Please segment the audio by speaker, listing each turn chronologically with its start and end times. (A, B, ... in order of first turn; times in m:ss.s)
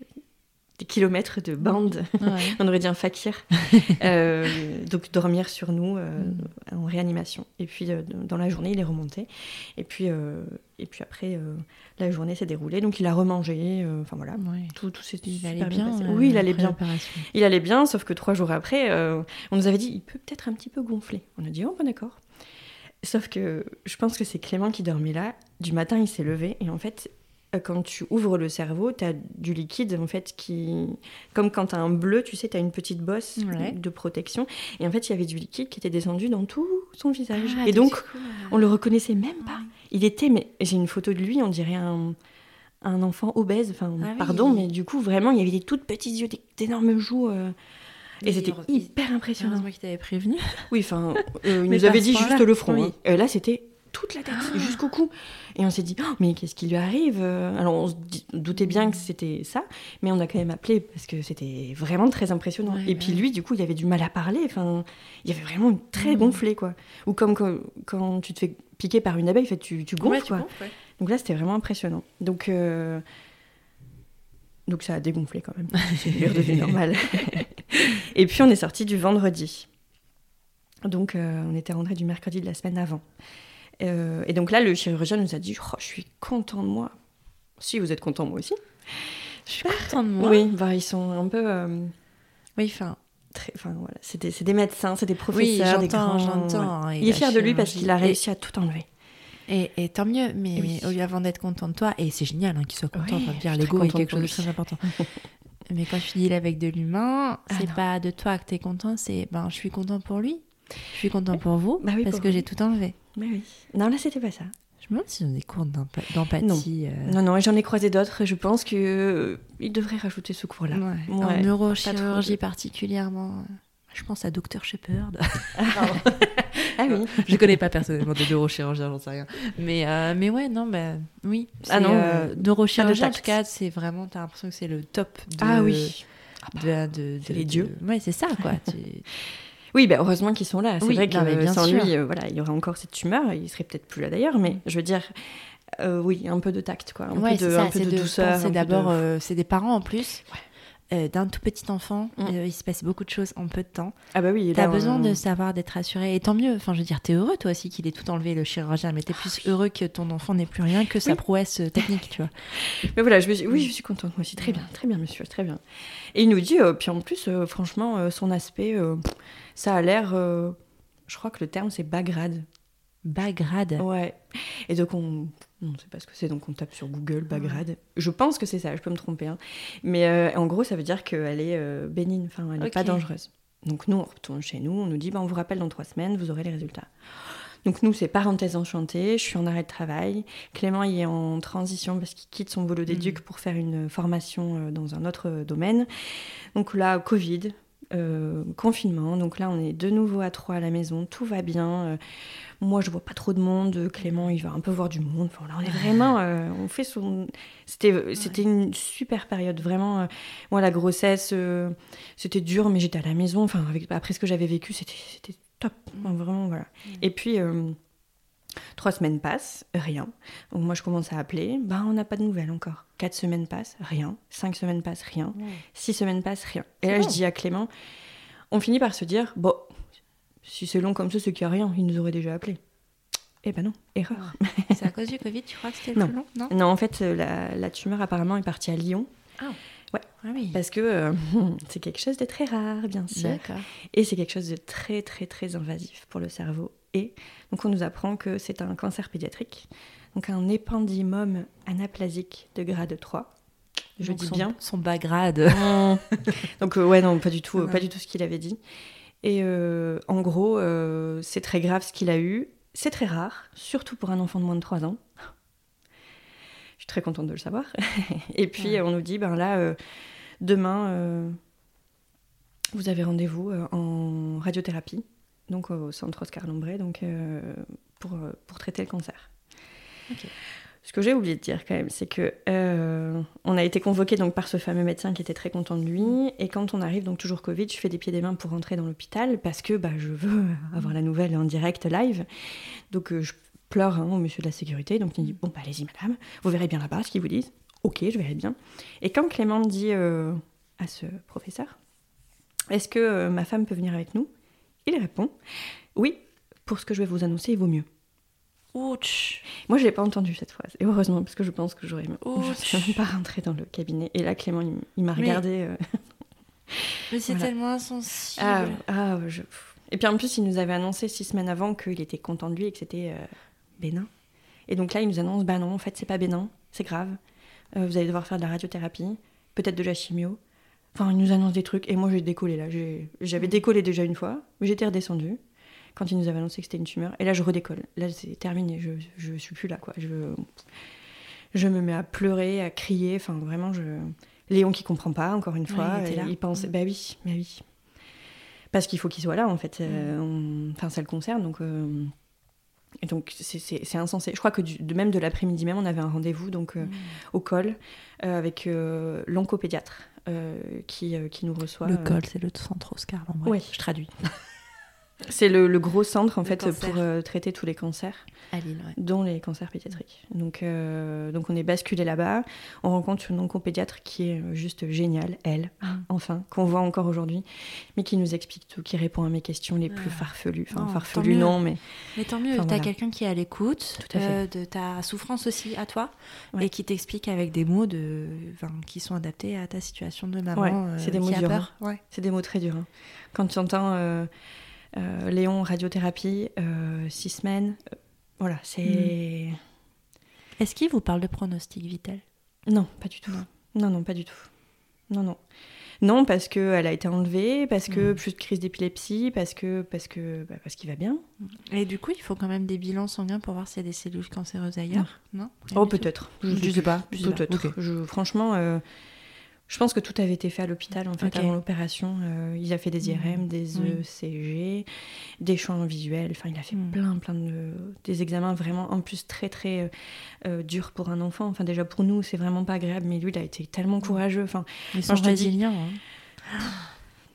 0:00.8-0:22.2 A
0:01.6-0:02.6 B
0:06.2-0:06.5 B
0:14.4-0:17.3 B
0:23.0-0:42.2 A
0:33.4-0:33.8 B
0:37.3-0:38.6 B
0:42.8-0:47.5 A
0:44.0-0:44.7 B
0:48.2-0:49.6 A
0:48.2-0:50.7 B
0:50.7-1:13.0 A
0:51.6-0:52.9 B
0:54.3-0:54.8 B
1:02.7-1:03.2 B
1:06.0-1:06.4 B
1:10.0-1:10.7 B
1:14.7-1:19.7 A
1:15.9-1:16.7 B
1:20.8-1:23.0 A
1:23.8-1:26.9 A
1:27.6-1:31.9 A
1:29.5-1:30.4 B
1:32.6-1:33.0 B
1:33.3-1:38.8 A
1:35.3-1:38.2 B
1:39.5-1:44.9 B
1:40.6-1:40.9 A
1:42.9-1:45.2 A
1:45.7-1:53.0 B
1:47.5-1:47.8 A
1:51.8-1:52.5 A
1:53.1-1:54.5 A
1:54.8-1:57.2 B
1:56.4-2:02.4 A
2:00.7-2:19.1 B
2:05.6-2:06.1 A
2:06.7-2:07.3 A
2:11.6-2:13.3 A
2:15.4-2:16.7 A
2:17.2-2:17.7 A
2:19.7-2:29.0 A
2:20.8-2:21.9 B
2:27.1-2:30.3 B
2:30.9-2:34.0 B
2:34.1-2:35.2 A
2:34.5-2:42.5 B
2:42.6-2:45.6 A
2:46.1-2:50.6 A
2:51.1-2:52.4 A
2:53.0-2:53.8 B
2:53.8-3:22.0 A
2:57.3-2:57.6 B
3:02.6-3:03.0 B
3:12.9-3:13.2 B
3:22.6-3:37.8 A
3:38.7-3:47.7 A
3:46.9-3:47.2 B
3:48.5-3:49.8 A
3:50.4-3:52.6 A
3:53.4-3:54.8 A
3:54.2-3:56.5 B
3:55.9-3:59.1 A
3:59.9-4:13.3 A
4:00.2-4:00.6 B
4:03.1-4:03.7 B
4:14.0-4:14.6 A
4:14.0-4:16.3 B
4:15.5-4:18.6 A
4:17.6-4:17.8 B
4:19.2-4:25.1 A
4:26.8-4:29.8 A
4:30.4-4:31.4 A
4:32.7-4:39.3 A
4:40.8-5:01.8 A
5:02.7-5:04.3 A
5:04.8-5:05.3 A
5:05.9-5:07.8 A
5:08.7-5:09.4 B
5:09.6-5:16.0 A
5:12.2-5:13.0 B
5:15.2-5:15.4 B
5:16.7-5:17.5 A
5:17.1-5:18.8 B
5:18.4-5:24.1 A
5:24.7-5:27.2 A
5:27.8-5:30.4 A
5:30.9-5:35.4 A
5:36.0-5:40.5 A
5:41.5-5:47.6 A
5:45.7-5:46.6 B
5:48.7-5:52.1 A
5:49.9-5:50.1 B
5:53.0-6:02.2 A
5:56.8-5:57.2 B
6:01.8-6:04.1 B
6:03.4-6:03.7 A
6:05.2-6:08.3 A
6:06.4-6:07.0 B
6:08.5-6:09.0 B
6:09.0-6:22.9 A
6:19.9-6:32.0 B
6:24.0-6:24.4 A
6:30.5-6:34.3 A
6:34.9-6:37.8 A
6:38.4-6:39.6 A
6:38.8-6:39.1 B
6:40.6-6:42.2 B
6:42.7-6:44.5 A
6:45.1-6:45.4 A
6:46.0-6:51.2 A
6:47.9-6:48.2 B
6:51.4-6:57.7 B
6:55.7-6:58.8 A
6:59.7-7:04.8 A
7:01.2-7:01.5 B
7:03.0-7:04.0 B
7:05.4-7:09.9 A
7:10.4-7:15.6 A
7:14.9-7:16.8 B